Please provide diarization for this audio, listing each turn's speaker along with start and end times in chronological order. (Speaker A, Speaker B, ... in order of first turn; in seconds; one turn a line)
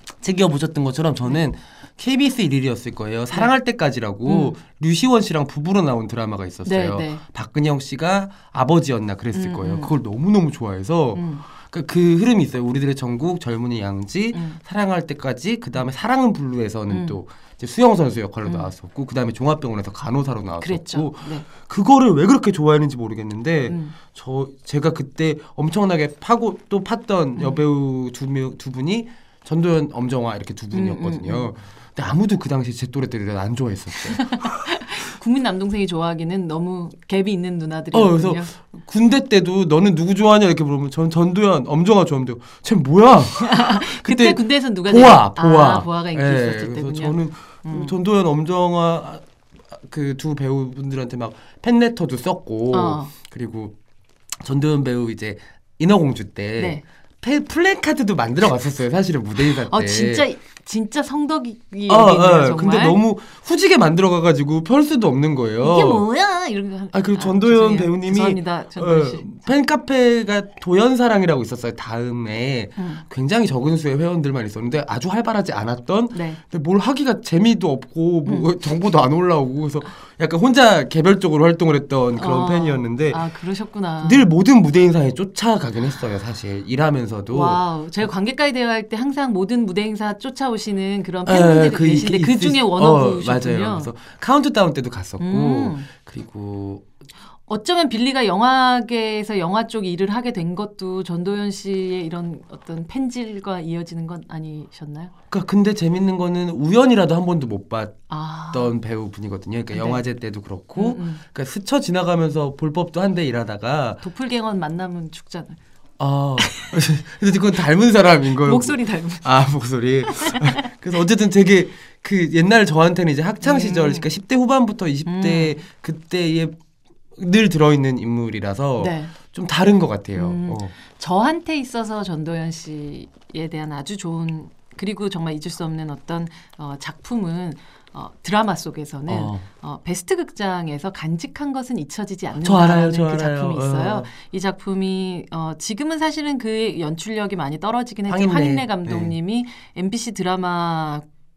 Speaker A: 0.2-34.5
Speaker B: 4.2-4.6
Speaker B: 6.6-7.2
Speaker B: 9.3-9.9
Speaker B: 11.1-11.4
Speaker B: 14.3-14.6
Speaker B: 16.9-17.2
Speaker B: 18.4-18.7
Speaker B: 20.6-21.5
Speaker B: 23.7-23.9
Speaker B: 27.4-27.6
Speaker B: 30.7-31.5
Speaker B: 34.1-38.5
Speaker A: 37.9-53.7
Speaker B: 43.4-47.9
Speaker B: 52.7-53.1
Speaker A: 54.4-60.2
Speaker B: 56.6-56.8
Speaker B: 59.6-63.0
Speaker A: 61.9-66.0
Speaker B: 65.6-69.4
Speaker A: 66.9-83.2
Speaker B: 72.8-73.0
Speaker B: 76.1-76.4
Speaker B: 82.2-84.3
Speaker A: 84.0-88.0
Speaker B: 87.3-93.9
Speaker A: 91.2-96.8
Speaker B: 95.2-95.9
Speaker B: 97.5-105.1
Speaker A: 105.3-114.0
Speaker B: 108.1-108.7
Speaker B: 109.7-110.0
Speaker B: 110.7-111.2
Speaker B: 114.0-115.6
Speaker A: 116.0-126.5
Speaker B: 116.4-116.7
Speaker B: 118.4-119.4
Speaker B: 120.0-120.6
Speaker B: 123.4-124.1
Speaker B: 125.0-125.6
Speaker A: 127.2-130.7
Speaker B: 128.8-129.1
Speaker B: 130.1-151.1
Speaker A: 139.1-139.4
Speaker A: 142.4-144.1
Speaker A: 148.1-149.1